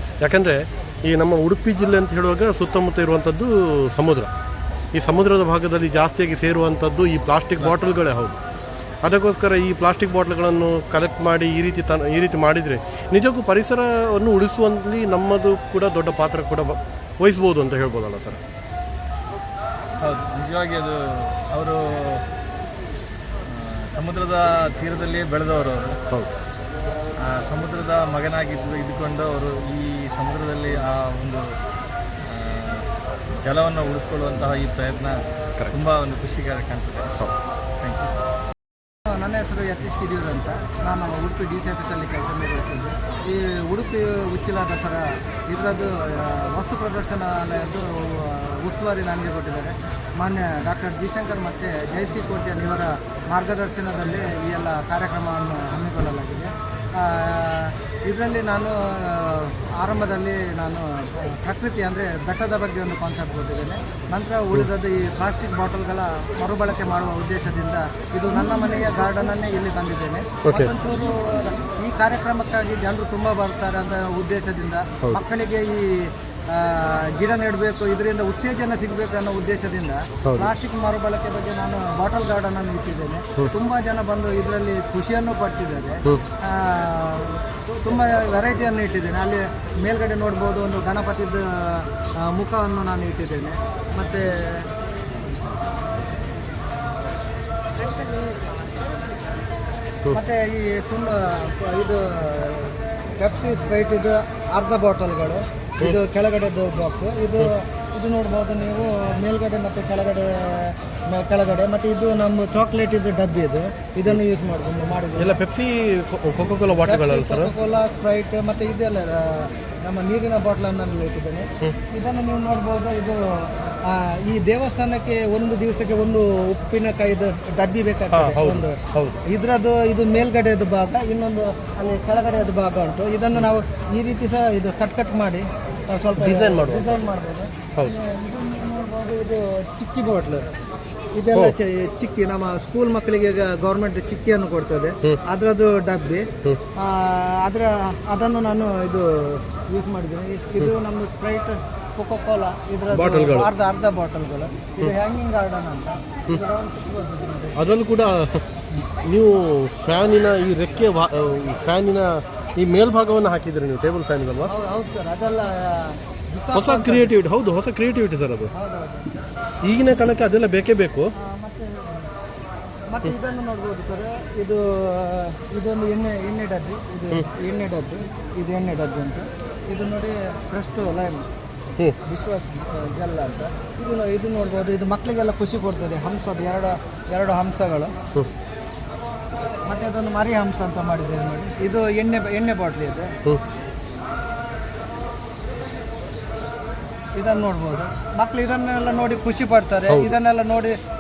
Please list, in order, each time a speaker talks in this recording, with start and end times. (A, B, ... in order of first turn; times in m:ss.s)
0:00.2-0:04.3 A
0:04.9-0:08.4 A
0:07.6-0:08.0 B
0:09.0-0:18.4 A
0:20.0-0:22.2 B
0:23.4-0:26.0 B
0:27.2-0:31.5 B
0:32.2-0:37.2 B
0:37.8-0:38.1 B
0:39.1-1:34.7 C
1:10.4-1:10.7 A
1:20.2-1:20.5 A
1:40.1-1:55.4 C
1:55.2-1:57.5 A
1:56.8-2:20.5 C
2:08.1-2:09.2 A
2:16.2-2:17.0 A
2:21.2-2:37.6 C
2:32.9-2:33.5 A
2:37.6-2:38.4 A
2:39.0-2:44.5 A
2:44.4-2:47.1 C
2:46.5-2:48.5 A
2:48.5-2:49.1 C
2:49.6-2:51.1 A
2:51.2-2:52.1 C
2:52.9-3:01.2 C
3:02.0-3:07.9 C
3:09.7-3:13.1 C
3:17.2-3:20.8 C
3:19.9-3:20.1 A